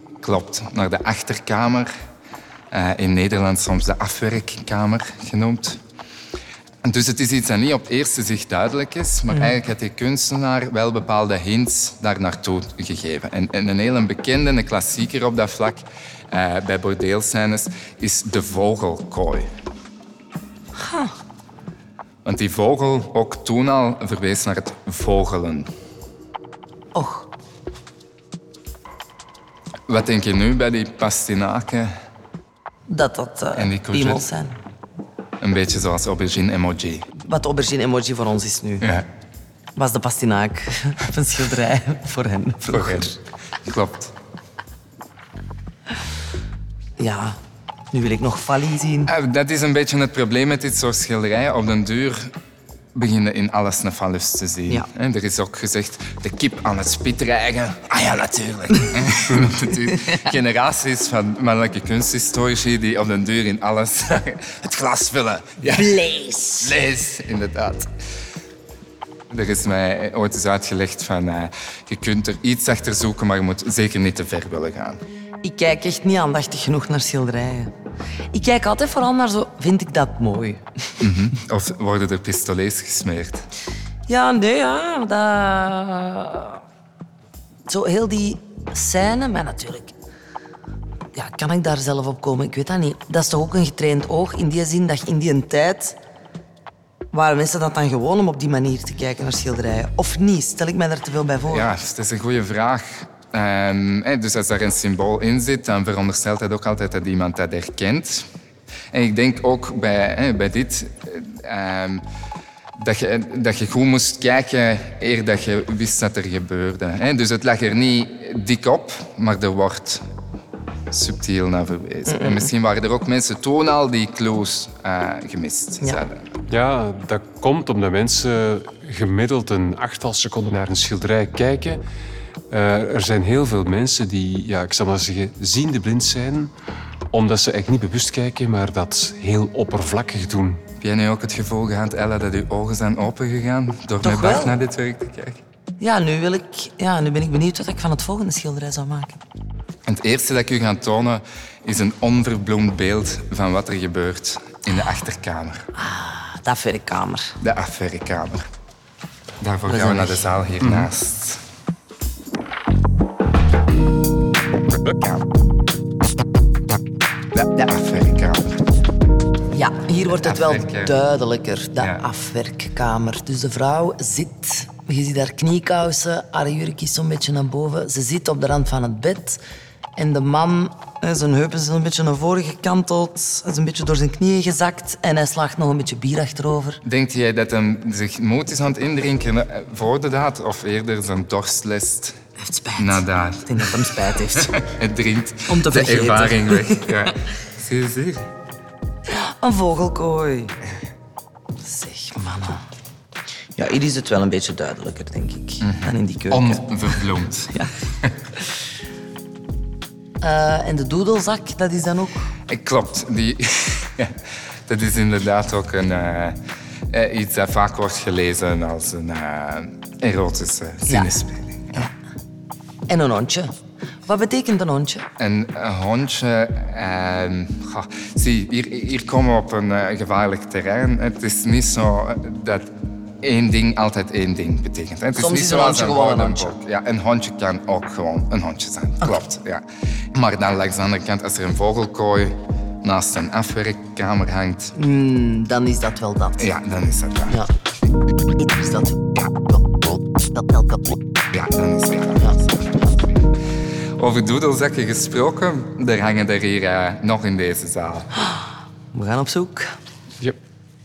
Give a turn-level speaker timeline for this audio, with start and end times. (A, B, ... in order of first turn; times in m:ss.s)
0:00.2-0:01.9 A
0:02.7-0:05.8 A
0:06.8-0:19.5 A
0:20.8-0:21.2 B
0:22.2-0:25.7 A
0:26.9-0:27.3 B
0:29.9-0:31.9 A
0:32.9-0:34.5 B
0:33.6-0:34.2 A
0:35.4-0:37.1 A
0:37.2-0:38.9 B
0:39.8-0:43.1 B
0:42.7-0:44.1 A
0:47.0-0:47.4 B
0:47.9-0:49.1 B
0:49.1-0:52.3 A
0:52.9-1:07.9 A
1:05.7-1:06.7 B
1:09.3-1:15.0 A
1:15.4-1:17.7 B
1:18.3-1:20.6 B
1:21.0-1:23.4 A
1:24.1-1:26.6 B
1:27.7-1:29.9 B
1:31.1-1:36.0 B
1:37.1-1:41.7 B
1:41.5-1:48.3 A
1:48.9-1:52.0 A
1:52.7-2:00.0 A
2:00.9-2:06.2 A
2:02.1-2:02.5 B
2:06.5-2:11.8 C
2:12.5-2:16.5 C
2:17.1-2:20.6 C
2:20.8-2:25.4 A
2:24.0-2:24.5 B
2:25.8-2:29.2 B
2:29.8-2:35.7 A
2:35.7-2:37.4 B
2:37.4-2:38.4 A
2:39.4-2:41.4 A
2:39.7-2:40.3 B
2:40.6-2:40.9 C
2:44.8-2:45.2 A
2:47.3-2:48.6 A
2:49.5-2:59.4 B
2:50.2-2:50.9 A
3:00.0-3:06.8 B
3:06.8-3:12.2 A
3:12.4-3:14.5 B
3:12.8-3:13.7 A
3:14.4-3:18.3 A
3:15.5-3:16.8 B
3:19.1-3:20.6 B
3:21.6-3:22.6 B
3:23.6-3:26.7 B
3:25.6-3:27.5 A
3:30.2-3:32.3 B
3:32.5-3:34.1 A
3:34.7-3:36.4 A
3:36.9-3:41.9 A
3:40.8-3:41.2 B
3:42.9-3:43.5 B
3:44.0-3:45.1 B
3:45.2-3:52.7 A
3:53.2-4:04.7 A
3:55.2-3:56.6 B
4:04.7-4:06.4 B
4:06.4-4:07.4 A
4:08.3-4:09.2 B
4:10.3-4:10.8 B
4:11.3-4:12.9 A
4:14.0-4:18.1 A
4:18.9-4:19.8 B